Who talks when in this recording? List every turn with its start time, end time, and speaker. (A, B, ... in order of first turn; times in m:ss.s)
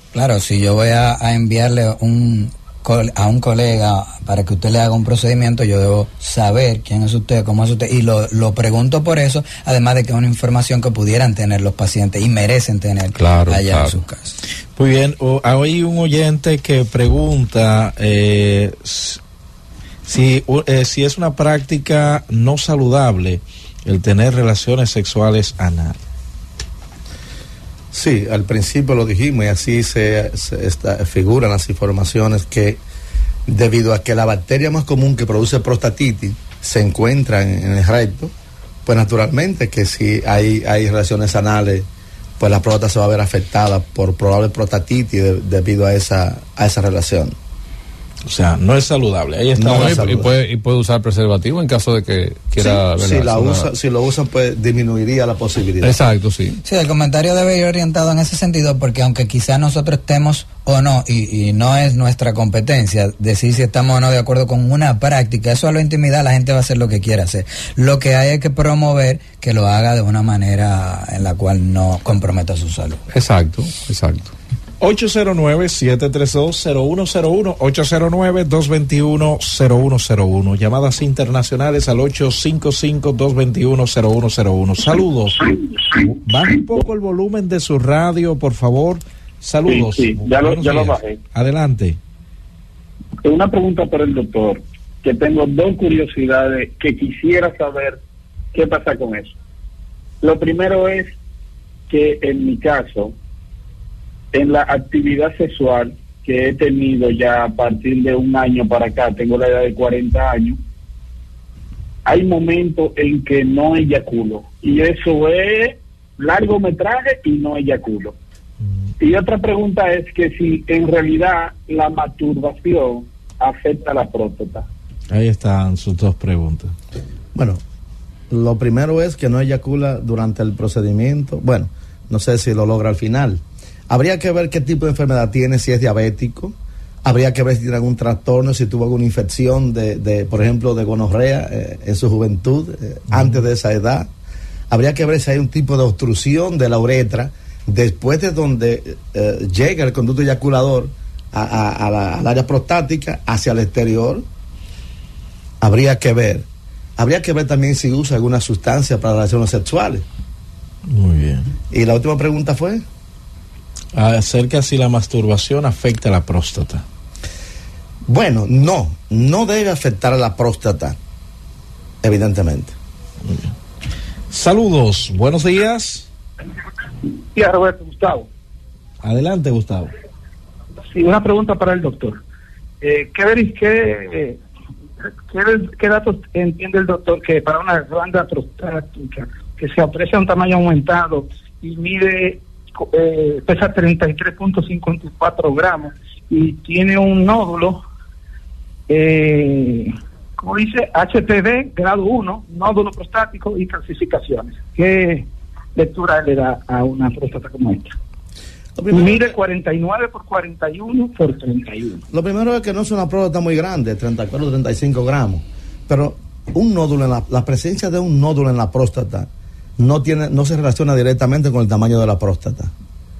0:00.1-0:14.4 A
0:13.2-0:14.0 B
0:14.7-0:19.2 C
0:20.1-0:26.0 C
0:27.9-0:32.8 D
0:33.5-0:38.3 D
0:38.8-0:41.9 D
0:42.4-0:47.4 D
0:48.3-0:50.2 C
0:49.6-0:50.3 D
0:49.6-0:53.7 B
0:52.6-0:56.0 D
0:55.8-0:56.6 B
0:56.6-1:13.0 A
1:13.1-1:14.3 B
1:14.8-1:32.0 C
1:29.7-1:31.2 E
1:33.2-1:38.0 E
1:38.5-1:39.4 E
1:40.2-1:41.1 E
1:41.9-1:43.2 E
1:44.3-1:50.6 E
1:52.0-1:58.2 E
1:59.0-2:04.7 E
2:05.1-2:06.7 C
2:07.3-2:07.6 D
2:08.3-2:24.1 D
2:24.7-2:34.2 D
2:35.6-2:36.5 D
2:37.0-2:40.1 D
2:40.9-2:41.5 C
2:41.7-2:42.8 D
2:43.9-2:46.8 C
2:48.1-2:51.0 D
2:52.0-2:52.8 D
2:53.2-2:53.5 C
2:54.3-2:56.1 C
2:57.3-2:58.3 F
2:59.0-2:59.9 C
3:00.9-3:02.2 F
3:02.8-3:04.4 F
3:05.3-3:17.8 F
3:18.9-3:28.0 F
3:28.8-3:29.4 D
3:28.9-3:32.0 F
3:32.1-3:42.7 D